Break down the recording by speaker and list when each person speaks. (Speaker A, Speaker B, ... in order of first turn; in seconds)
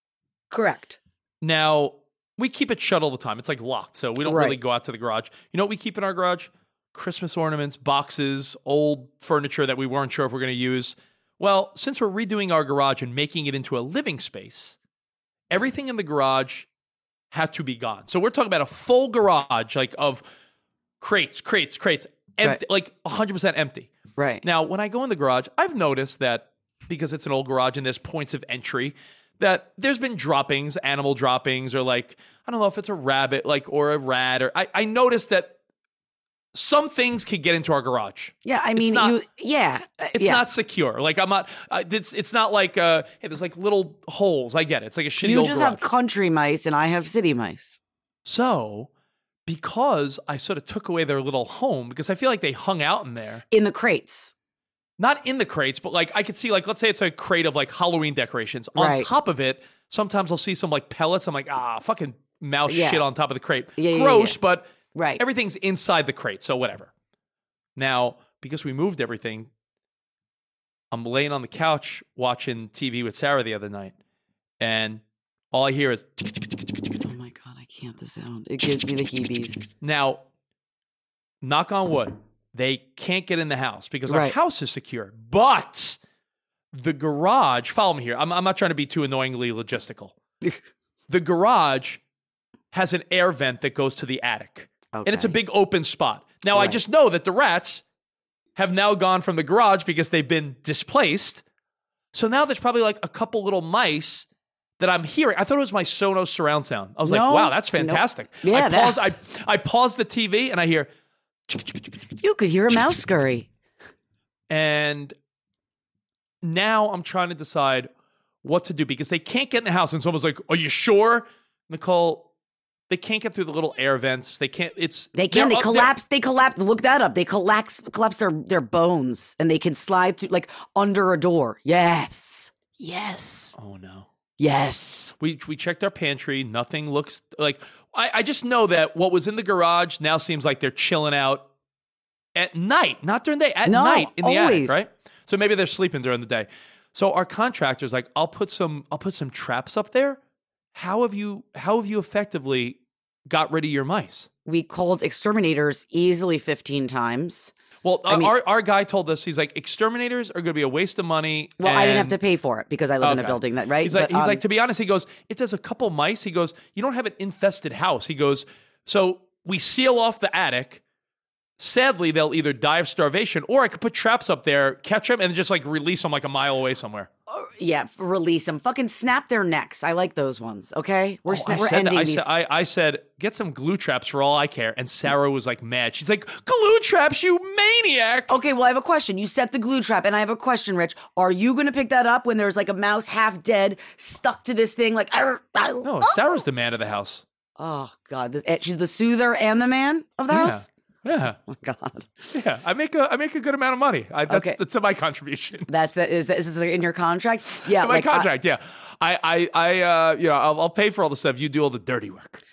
Speaker A: 0.5-1.0, 4.2-4.6, 24.2-24.4, 38.5-40.4, 45.2-47.8, 53.5-54.3, 58.8-59.1, 62.7-63.0, 63.8-64.4, 65.0-65.2, 77.0-79.6, 84.1-84.3, 94.9-95.3, 96.5-96.8, 107.0-109.0, 112.2-113.5, 125.2-133.6, 134.4-135.2, 143.7-144.8, 154.5-157.5, 161.6-164.4, 177.3-182.3, 188.3-196.4, 197.6-200.7, 201.5-202.3, 204.3-204.6, 205.7-208.3
Speaker B: 1.4-14.8, 15.5-16.7, 17.3-20.2, 21.0-23.9, 24.4-35.6, 36.5-39.2, 40.1-45.8, 48.3-48.9, 49.5-53.5, 55.0-66.9, 67.8-69.5, 70.9-73.9, 74.6-76.9, 79.8-80.2, 81.4-86.0, 86.7-90.2, 91.1-92.0, 92.7-97.8, 98.6-101.4, 102.1-104.3, 104.8-110.9, 111.5-111.8, 114.5-115.2, 116.4-117.9, 118.4-122.3, 122.9-125.9, 133.6-134.1, 135.2-141.5, 142.3-150.2, 150.7-154.3, 157.8-162.2, 163.0-170.8, 171.6-177.1, 181.3-188.4, 195.8-197.2, 200.3-201.4, 202.3-205.7, 207.7-212.4